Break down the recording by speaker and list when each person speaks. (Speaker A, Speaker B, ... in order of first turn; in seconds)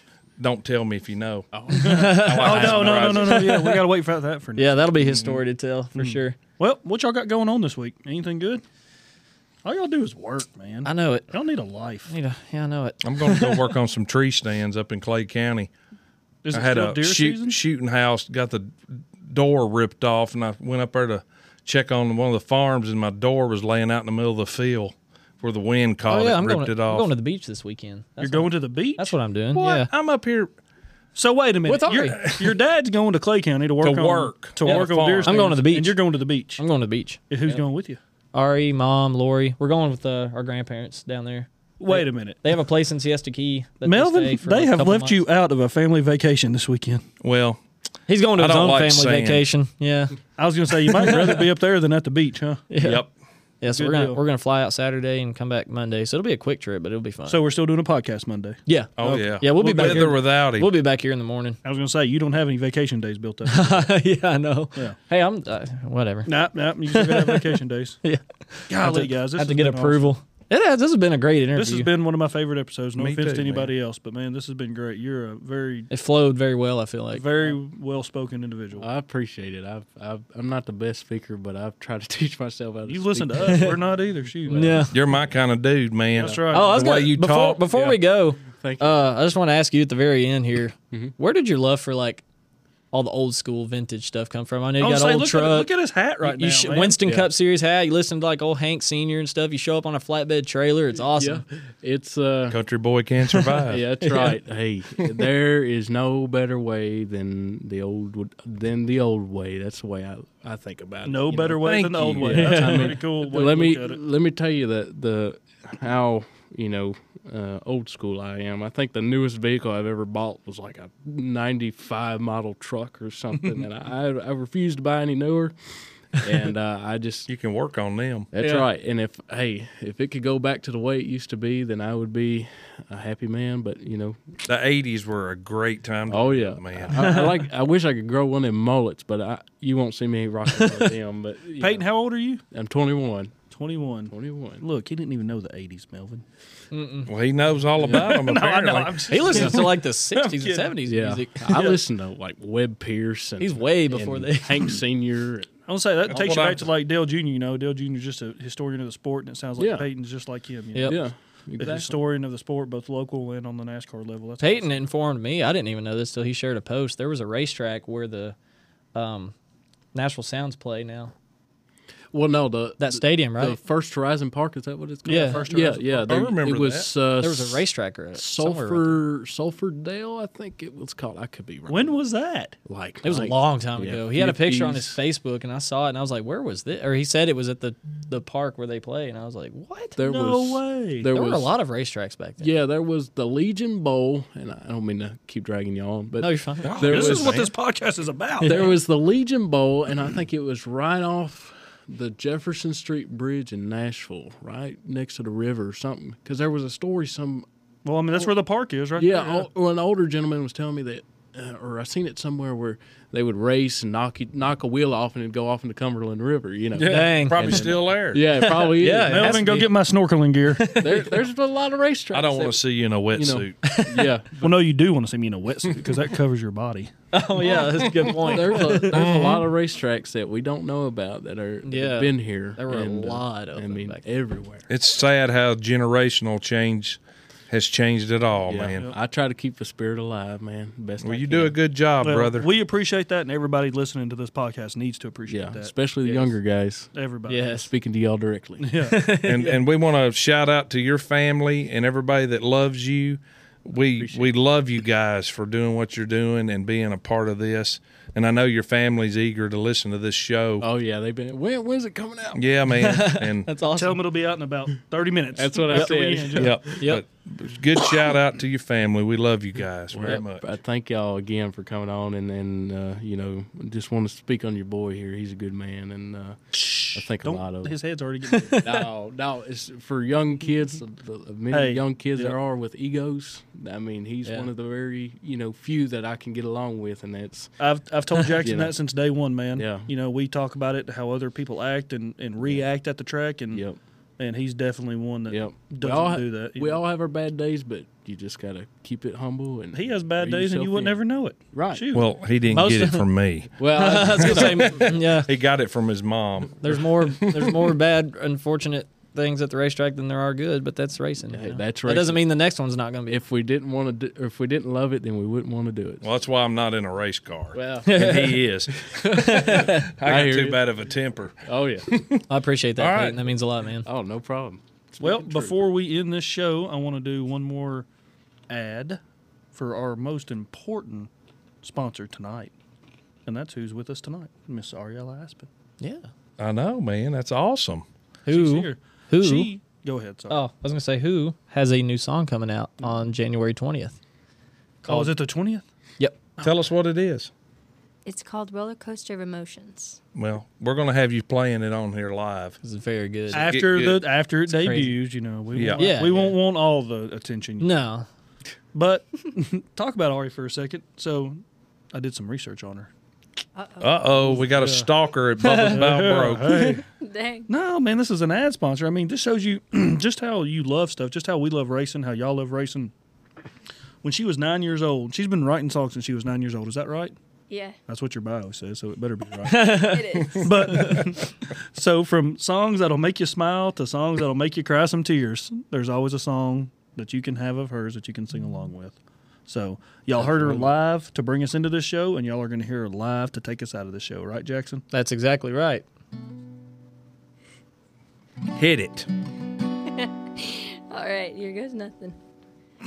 Speaker A: 0.4-3.4, 5.0-5.4, 13.0-15.7, 16.5-27.1, 29.6-30.5, 33.8-35.5, 47.2-47.6, 48.4-49.5, 52.8-53.1, 59.0-60.7, 73.0-73.7, 84.9-87.8, 102.5-103.8, 111.6-112.6, 127.3-128.3, 134.5-137.2, 147.1-149.3, 156.1-156.6, 175.8-176.9, 196.6-197.5, 217.2-218.2, 222.1-223.6, 228.9-229.5, 234.7-238.9, 241.0-242.5, 249.3-260.6, 262.4-263.5, 266.4-270.5, 301.9-307.7, 316.0-322.2, 322.8-323.2, 336.4-337.9, 346.4-347.3, 350.1-352.6, 353.3-354.0, 355.5-355.8, 363.8-366.8, 398.5-399.1
Speaker B: 1.5-3.4, 78.8-83.8, 88.4-89.0, 101.0-102.6, 103.7-125.5, 126.1-127.3, 128.3-134.2, 136.1-141.9, 142.5-143.3, 144.1-144.6, 150.9-155.5, 159.6-159.9, 160.8-162.0, 172.1-182.0, 182.7-185.0, 190.0-191.5, 192.4-197.5, 198.4-207.5, 209.0-219.7, 220.8-224.6, 228.2-234.7, 238.5-241.6, 245.3-248.7, 254.0-254.3, 260.6-262.5, 265.4-266.8, 269.9-277.8, 278.6-287.5, 288.4-288.7, 289.6-289.9, 293.5-293.8, 295.3-301.0, 301.5-301.9, 303.6-304.9, 311.3-312.2, 313.1-316.1, 317.5-318.0, 318.8-320.6, 321.4-322.0, 323.9-325.6, 390.1-390.7
Speaker C: 1.7-3.9, 4.6-6.4, 10.8-11.3, 12.1-13.7, 26.1-29.9, 31.7-32.2, 34.7-36.0, 36.6-37.6, 38.3-45.2, 48.1-50.2, 51.0-51.3, 52.7-53.0, 53.6-57.4, 58.7-61.6, 63.5-66.4, 66.9-71.9, 75.9-77.2, 84.5-85.0, 86.5-92.2, 92.9-101.4, 103.6-104.4, 112.5-112.8, 128.4-128.7, 146.7-147.1, 149.1-151.8, 153.4-154.8, 164.4-168.4, 168.9-169.3, 169.9-171.1, 172.8-173.6, 175.1-175.5, 177.2-179.0, 183.0-190.0, 191.1-192.5, 196.2-196.8, 198.4-198.7, 216.8-217.8, 218.3-219.6, 220.6-221.1, 223.6-224.1, 227.1-229.0, 231.7-234.0, 247.3-247.7, 248.8-249.6, 262.8-264.0, 266.4-267.0, 278.3-278.9, 302.5-303.1, 303.7-305.3, 306.6-313.2, 317.9-318.4, 319.1-319.9, 322.3-323.9, 335.8-336.1, 338.3-339.5, 340.3-344.0, 344.9-345.1, 352.6-353.5, 354.5-355.0, 355.8-356.4, 357.6-358.1, 365.4-365.8, 379.4-381.1, 394.9-395.9
Speaker D: 1.8-4.8, 6.0-8.6, 9.6-12.1, 16.4-17.6, 28.2-29.1, 31.1-36.6, 37.3-38.0, 41.8-42.5, 43.9-47.1, 50.4-52.7, 53.7-54.2, 57.3-60.1, 61.6-63.9, 66.3-68.0, 68.7-70.1, 71.5-75.9, 77.1-78.9, 82.9-84.8, 86.2-86.8, 94.8-97.0, 111.0-114.0, 123.4-123.7, 141.6-142.4, 143.5-146.2, 147.8-150.8, 151.5-151.8, 155.7-161.1, 161.6-164.8, 175.1-175.6, 181.7-182.6, 190.0-191.1, 196.8-198.7, 207.8-209.5, 219.1-220.8, 224.4-226.9, 242.0-246.3, 246.9-247.5, 248.6-249.0, 263.8-266.5, 276.6-278.7, 281.5-282.4, 287.6-293.6, 294.2-296.8, 299.7-302.1, 325.0-327.9, 328.5-329.0, 329.5-331.1, 331.6-332.5, 333.2-335.5, 338.3-340.4, 344.9-345.6, 353.3-357.7, 358.7-361.4, 361.9-362.9, 364.3-364.9, 365.6-366.8, 367.5-372.9, 374.0-377.1, 377.9-389.0, 389.5-394.8
Speaker E: 348.1-350.0, 363.6-364.4, 366.9-367.5, 377.5-377.8, 379.8-381.0, 399.9-402.2